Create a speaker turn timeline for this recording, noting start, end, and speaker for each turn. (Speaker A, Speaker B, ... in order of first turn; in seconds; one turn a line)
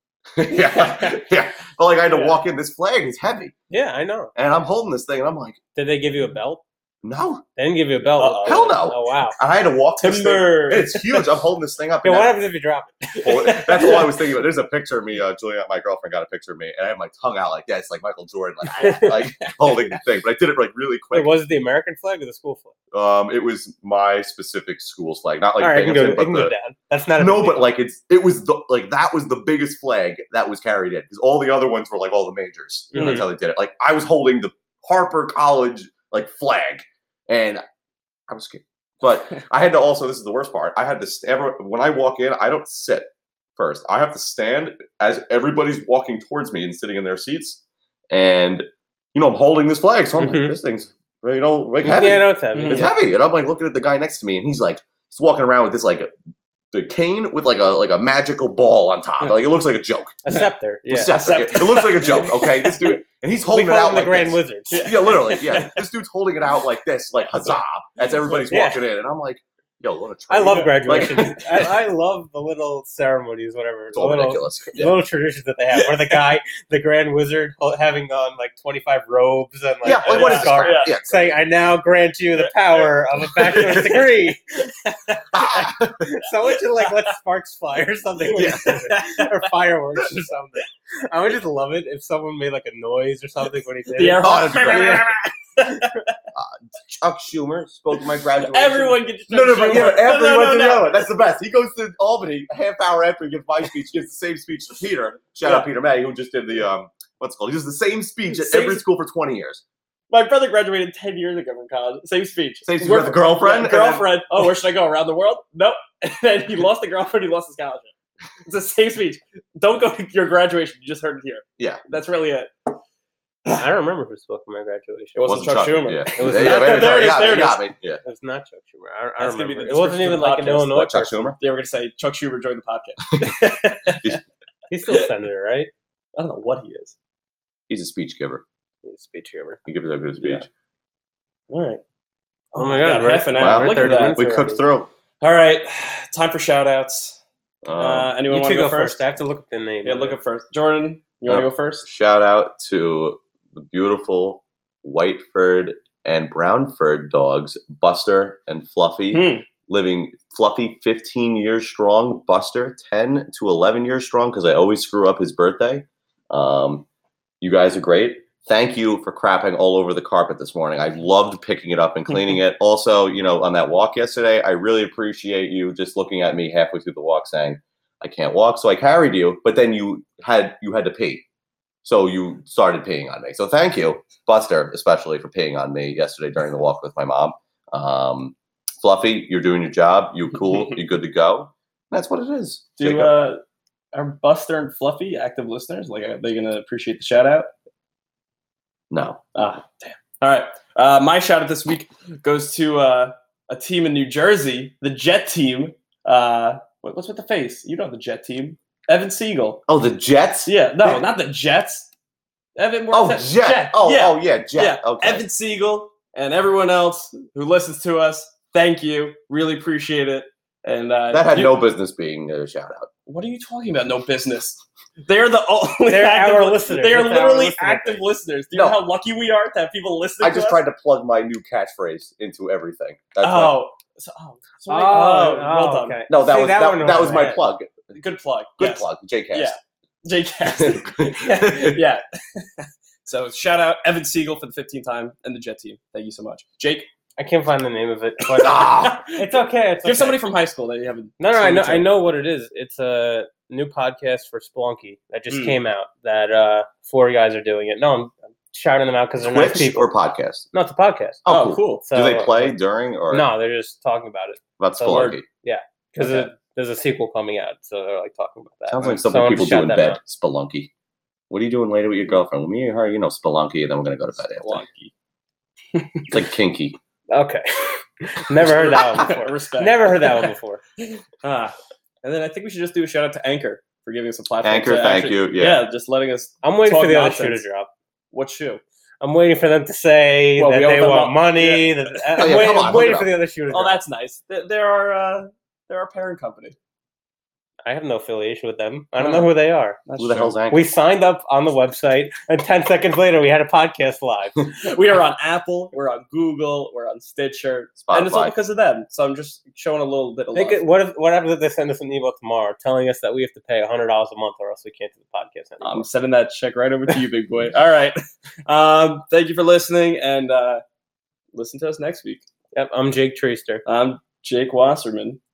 Speaker A: 0.3-3.5
Speaker B: 0.7-1.2
Speaker C: 3.7-4.3
Speaker A: 4.3-5.6
Speaker C: 5.8-6.6
Speaker A: 7.0-7.5
Speaker C: 7.6-9.4
Speaker B: 8.2-8.6
Speaker A: 8.4-12.3
Speaker B: 10.0-11.4
Speaker C: 12.0-13.2
Speaker B: 13.1-14.1
Speaker A: 13.2-21.3
Speaker C: 18.8-19.2
Speaker C: 21.1-22.7
Speaker A: 22.9-26.5
Speaker C: 25.6-27.6
Speaker A: 27.2-37.6
Speaker C: 32.9-33.2
Speaker B: 33.0-33.2
Speaker A: 38.3-47.6
Speaker A: 48.1-56.1
Speaker C: 50.2-50.5
Speaker C: 51.8-52.9
Speaker B: 52.5-52.9
Speaker A: 56.7-60.2
Speaker C: 60.2-61.2
Speaker A: 60.9-71.7
Speaker B: 61.2-63.0
Speaker C: 63.5-65.0
Speaker B: 64.7-65.8
Speaker C: 68.5-68.8
Speaker C: 70.3-95.1
Speaker B: 70.5-71.7
Speaker A: 73.9-75.0
Speaker B: 75.7-76.1
Speaker A: 79.8-81.4
Speaker B: 80.1-80.9
Speaker B: 82.4-83.9
Speaker A: 83.5-83.9
Speaker A: 85.3-86.0
Speaker A: 88.3-88.9
Speaker B: 88.5-89.2
Speaker B: 94.0-95.9
Speaker A: 94.2-95.1
Speaker A: 96.3-109.6
Speaker B: 98.4-101.0
Speaker B: 108.3-108.8
Speaker B: 110.1-117.9
Speaker A: 112.7-114.2
Speaker B: 118.5-122.8
Speaker C: 123.5-125.3
Speaker B: 125.2-127.6
Speaker A: 125.2-128.0
Speaker C: 126.2-127.5
Speaker C: 128.0-131.3
Speaker B: 129.2-130.7
Speaker A: 130.6-131.4
Speaker B: 131.4-134.2
Speaker C: 134.7-135.7
Speaker B: 136.2-136.9
Speaker A: 137.7-138.4
Speaker C: 138.8-139.6
Speaker A: 139.7-140.5
Speaker B: 140.2-140.5
Speaker B: 141.5-141.8
Speaker B: 142.5-144.2
Speaker C: 142.6-144.6
Speaker A: 143.4-144.9
Speaker B: 145.2-147.2
Speaker A: 147.7-148.1
Speaker B: 147.8-149.0
Speaker C: 148.3-150.2
Speaker B: 149.8-151.9
Speaker A: 151.3-166.9
Speaker B: 159.1-159.5
Speaker A: 167.4-181.3
Speaker A: 181.8-193.2
Speaker B: 192.8-193.4
Speaker B: 193.9-197.5
Speaker A: 198.9-199.2
Speaker B: 199.3-209.7
Speaker A: 209.7-211.1
Speaker B: 210.5-211.9
Speaker B: 212.6-221.6
Speaker A: 212.9-215.3
Speaker A: 221.1-222.9
Speaker B: 223.1-230.6
Speaker C: 225.9-228.1
Speaker A: 228.5-228.8
Speaker A: 230.2-233.6
Speaker B: 233.2-236.0
Speaker C: 234.7-237.4
Speaker A: 236.1-237.9
Speaker B: 237.9-246.9
Speaker A: 238.6-239.6
Speaker A: 240.6-241.8
Speaker C: 241.3-241.6
Speaker C: 247.2-250.2
Speaker A: 248.4-249.0
Speaker B: 248.4-249.2
Speaker B: 249.8-251.9
Speaker C: 251.2-259.9
Speaker B: 255.3-255.6
Speaker A: 259.2-260.5
Speaker C: 260.5-261.2
Speaker A: 261.2-263.3
Speaker B: 261.3-261.9
Speaker C: 261.9-262.6
Speaker C: 263.1-270.0
Speaker A: 264.6-265.2
Speaker B: 264.8-265.2
Speaker B: 266.0-266.3
Speaker A: 268.7-270.7
Speaker A: 271.3-274.6
Speaker B: 274.4-274.9
Speaker B: 275.7-276.1
Speaker A: 276.1-276.8
Speaker C: 277.1-280.6
Speaker B: 278.4-287.4
Speaker A: 284.4-285.6
Speaker C: 286.4-287.7
Speaker B: 288.1-288.6
Speaker C: 289.0-293.8
Speaker B: 290.4-292.0
Speaker A: 292.2-293.1
Speaker B: 293.5-296.6
Speaker C: 297.6-299.8
Speaker B: 299.0-299.3
Speaker B: 299.9-300.4
Speaker A: 300.0-300.6
Speaker C: 300.5-304.5
Speaker B: 304.6-310.6
Speaker A: 307.8-308.3
Speaker C: 310.4-315.9
Speaker B: 315.6-320.6
Speaker B: 321.3-322.2
Speaker C: 322.5-323.6
Speaker B: 323.6-325.2